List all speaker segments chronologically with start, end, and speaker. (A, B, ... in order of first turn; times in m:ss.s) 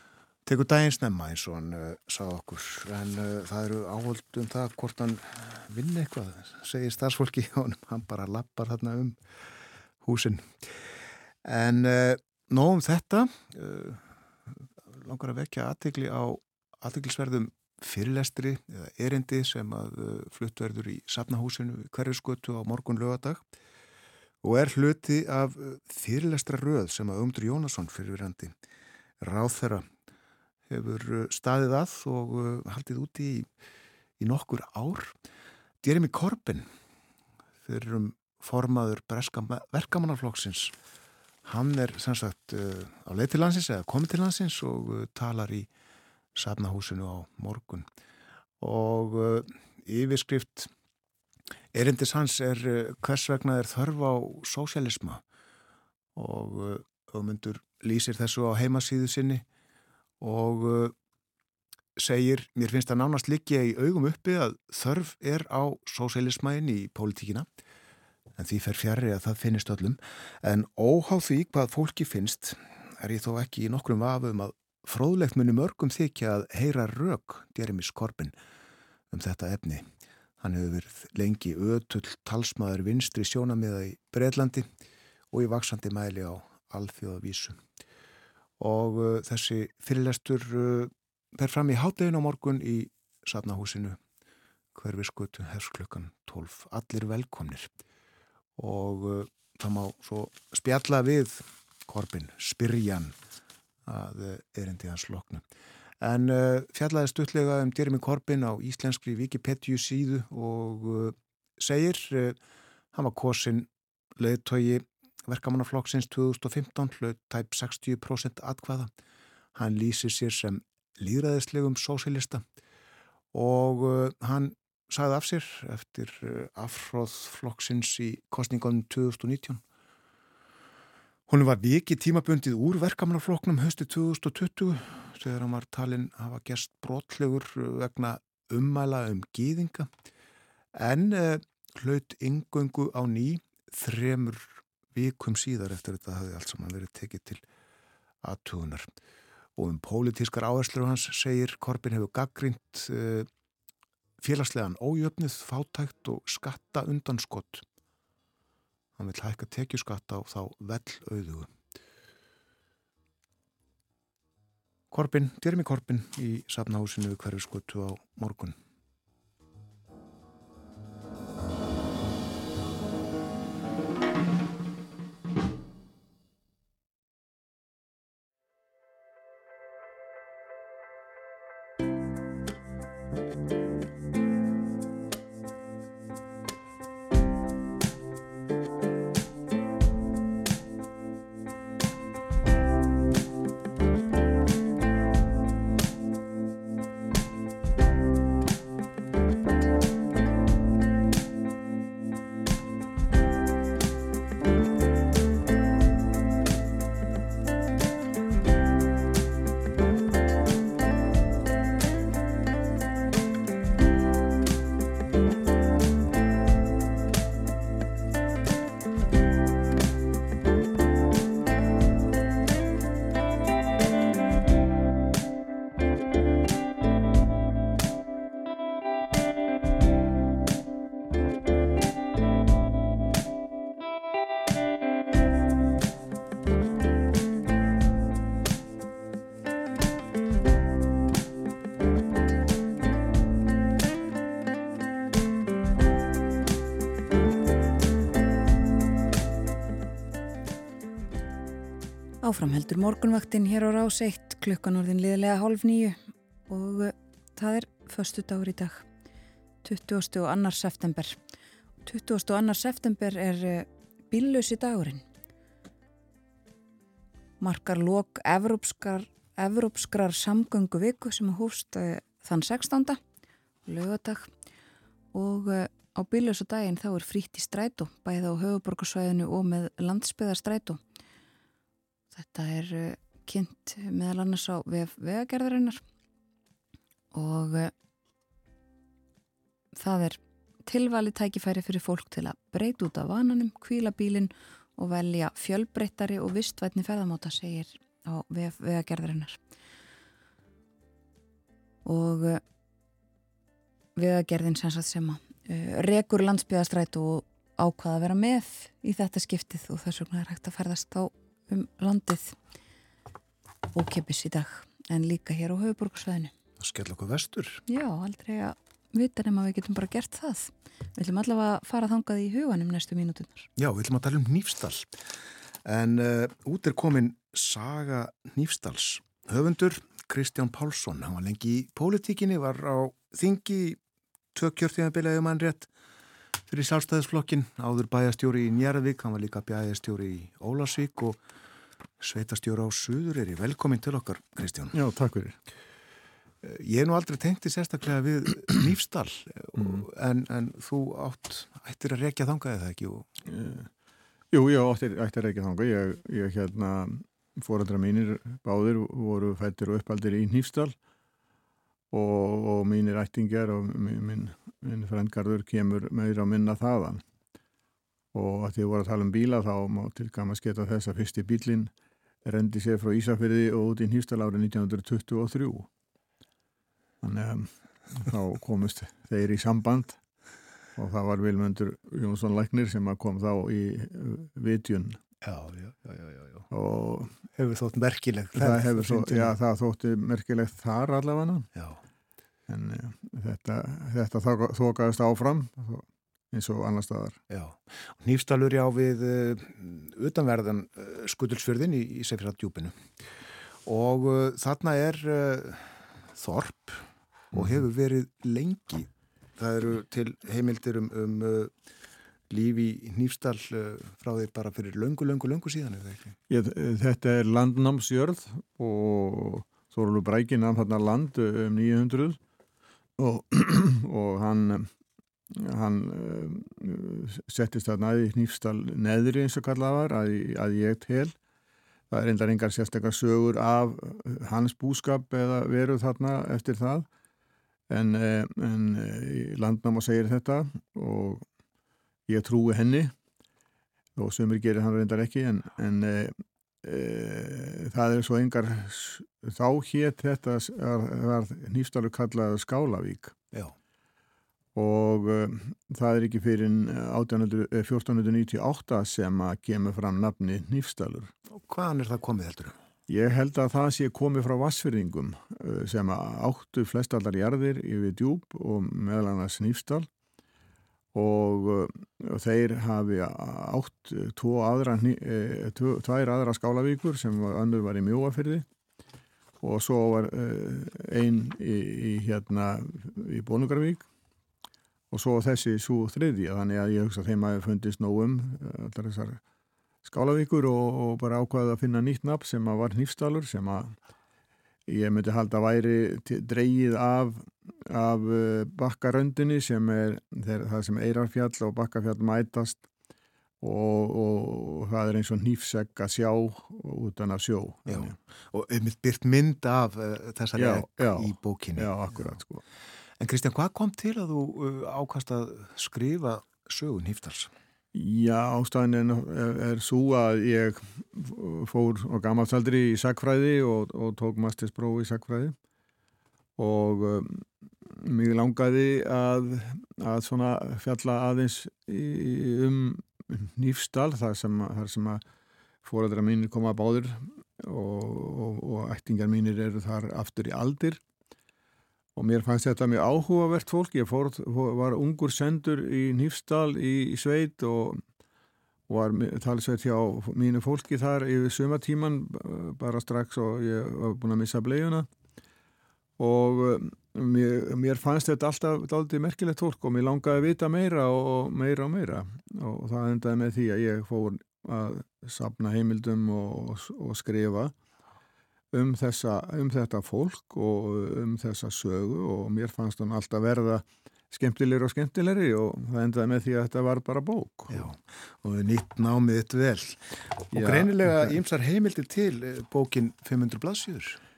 0:00.4-0:23.4 A
0:24.4-0:28.6 A
0:29.2-0:29.9 A
0:30.7-0:33.5 A
0:34.2-0:35.2 A
0:35.8-0:36.7 A
0:37.6-0:40.8 A
0:41.4-0:45.7 A
0:46.4-0:47.9 A
0:48.6-0:50.7 A
0:51.7-0:55.2 A
0:56.2-0:59.4 A
1:00.2-1:01.0 A
1:02.0-1:07.5 A
1:08.4-1:18.4 A
1:19.1-1:19.9 A
1:20.4-1:24.7 A
1:25.3-1:27.6 A
1:28.6-1:34.0 A
1:34.8-1:37.7 A
1:38.6-1:43.2 A
1:43.9-1:45.4 A
1:46.0-1:52.4 A
1:52.9-1:58.9 A
1:59.6-2:02.4 A
2:03.3-2:09.6 A
2:11.3-2:19.9 A
2:20.7-2:27.4 A
2:28.2-2:28.9 A
2:29.6-2:33.3 A
2:34.2-2:37.7 A
2:39.0-2:41.5 A
2:44.9-2:48.6 A
4:12.2-4:18.8 B
4:19.6-4:21.2 B
4:21.9-4:25.0 B
4:27.4-4:33.0 B
4:33.7-4:34.3 B
4:35.1-4:40.8 B
4:42.1-4:45.8 B
4:47.1-4:47.7 B
4:49.8-4:59.4 B
5:01.8-5:02.4 B
5:04.0-5:12.4 B
5:13.7-5:16.3 B
5:16.6-5:17.6 A
5:17.7-5:23.5 B
5:23.6-5:25.0 A
5:25.6-5:33.8 A
5:34.3-5:35.7 A
5:36.5-5:41.2 A
5:42.0-5:44.8 A
5:44.7-5:45.4 C
5:46.4-5:53.1 A
5:49.6-5:49.8 C
5:53.3-5:53.7 C
5:54.3-6:00.8 C
6:01.9-6:07.0 C
6:08.1-6:11.7 C
6:12.2-6:15.7 C
6:17.0-6:20.0 C
6:20.8-6:25.0 C
6:25.2-6:26.5 A
6:26.5-6:27.2 C
6:27.3-6:29.4 A
6:28.4-6:31.5 C
6:32.5-6:37.2 C
6:37.3-6:42.8 A
6:43.6-6:51.5 A
6:52.3-6:56.2 A
6:56.3-7:02.2 C
7:03.0-7:04.7 C
7:05.4-7:11.2 C
7:11.9-7:16.9 C
7:17.7-7:21.2 C
7:22.1-7:22.9 C
7:24.0-7:33.2 C
7:34.6-7:41.1 C
7:41.3-7:42.6 A
7:42.9-7:49.9 C
7:50.9-7:58.5 C
7:59.4-8:03.9 C
8:04.9-8:09.2 C
8:09.8-8:13.8 C
8:14.7-8:22.6 C
8:23.4-8:28.0 C
8:27.7-8:32.0 A
8:30.4-8:32.4 C
8:33.0-8:37.3 A
8:37.7-8:45.4 C
8:46.4-8:55.0 C
8:55.6-9:00.8 C
9:02.0-9:07.8 C
9:08.7-9:14.9 C
9:16.0-9:27.5 C
9:28.5-9:37.7 C
9:37.5-9:44.0 A
9:40.3-9:41.1 C